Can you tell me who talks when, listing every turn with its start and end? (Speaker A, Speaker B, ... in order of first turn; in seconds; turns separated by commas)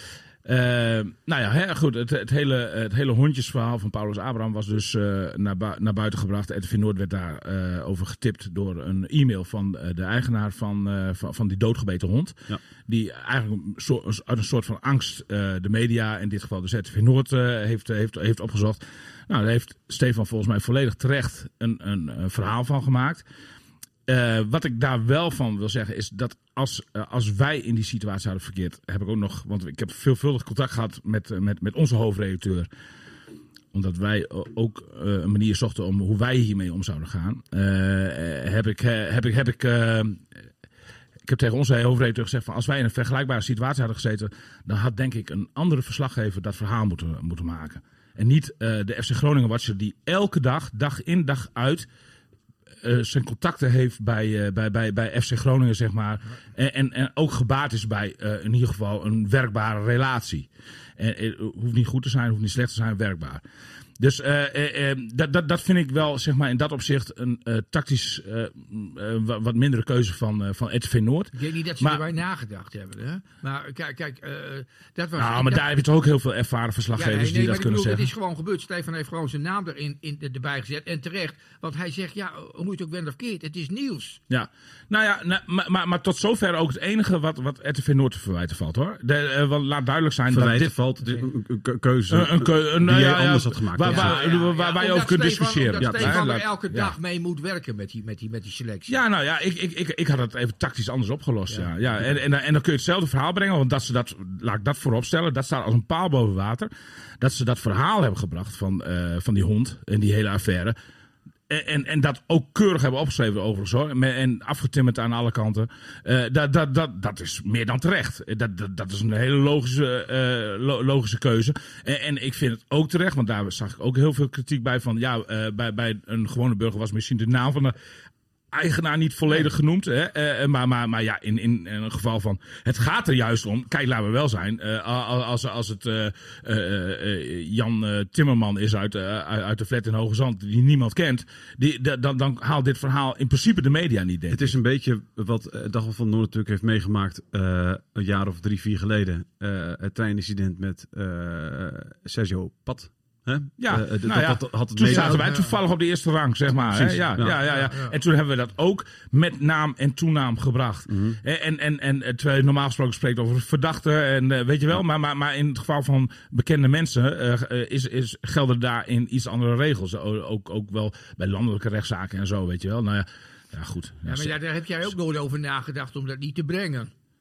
Speaker A: 0.5-23.2, Speaker A: 24.1-32.7, Speaker A: 33.7-40.3, Speaker A: 41.2-51.9, Speaker A: 52.8-63.4, Speaker A: 64.0-72.0, Speaker B: 71.3-75.7, Speaker A: 75.2-78.1, Speaker B: 77.0-84.2, Speaker A: 84.3-90.8, Speaker C: 90.3-94.2, Speaker A: 92.1-96.9, Speaker B: 93.8-99.0, Speaker C: 95.8-96.2, Speaker A: 98.9-110.8, Speaker A: 111.5-127.8, Speaker A: 128.5-144.6, Speaker C: 144.3-155.3, Speaker A: 153.6-174.3, Speaker B: 154.9-155.6, Speaker C: 156.7-157.4, Speaker B: 157.4-157.9, Speaker C: 160.9-161.2, Speaker B: 174.1-176.9